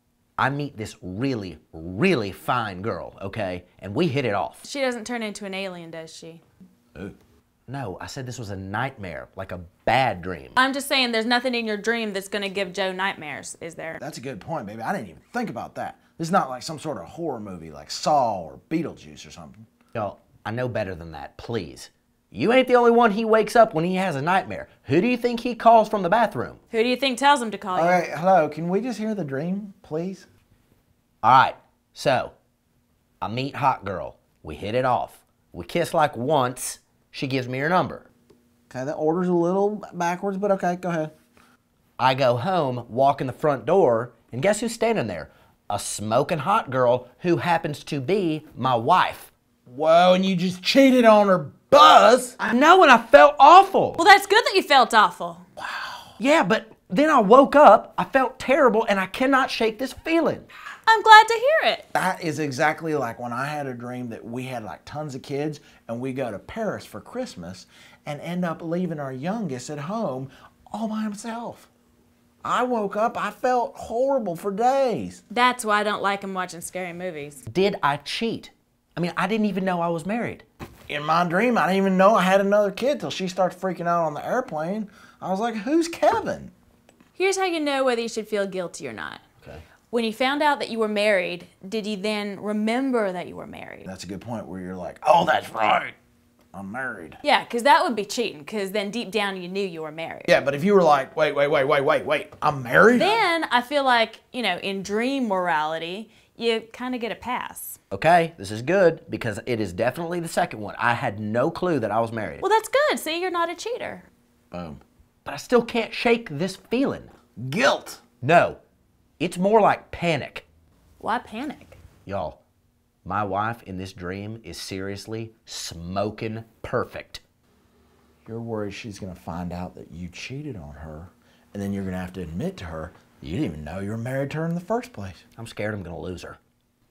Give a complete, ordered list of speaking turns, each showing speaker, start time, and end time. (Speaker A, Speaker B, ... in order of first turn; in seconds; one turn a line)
Speaker A: 0.4-4.6
Speaker B: 4.6-6.4
Speaker A: 7.7-10.6
Speaker B: 10.6-14.0
Speaker C: 14.0-19.6
Speaker A: 19.9-26.6
Speaker B: 26.7-28.0
Speaker C: 27.7-30.3
Speaker A: 31.2-32.3
Speaker A: 33.2-38.1
Speaker C: 38.7-41.1
Speaker A: 42.0-49.3
Speaker C: 49.7-52.4
Speaker A: 52.4-54.0
Speaker B: 54.0-55.4
Speaker C: 55.6-56.1
Speaker A: 56.2-60.5
Speaker B: 60.9-61.9
Speaker C: 61.9-71.7
Speaker C: 72.4-75.2
Speaker B: 75.3-77.4
Speaker A: 77.5-80.4
Speaker C: 80.9-86.5
Speaker B: 87.2-89.2
Speaker A: 89.4-89.7
Speaker B: 89.9-93.9
Speaker C: 93.8-96.0
Speaker C: 96.5-97.2
Speaker B: 97.2-100.3
Speaker C: 100.3-103.2
Speaker B: 102.9-107.8
Speaker A: 107.9-112.4
Speaker B: 112.4-114.1
Speaker C: 114.5-114.8
Speaker A: 115.2-117.1
Speaker C: 117.4-118.0
Speaker A: 118.2-118.6
Speaker A: 119.2-120.5
Speaker B: 121.0-121.8
Speaker A: 122.0-122.4
Speaker A: 123.0-127.2
Speaker C: 128.2-135.2
Speaker A: 135.4-136.4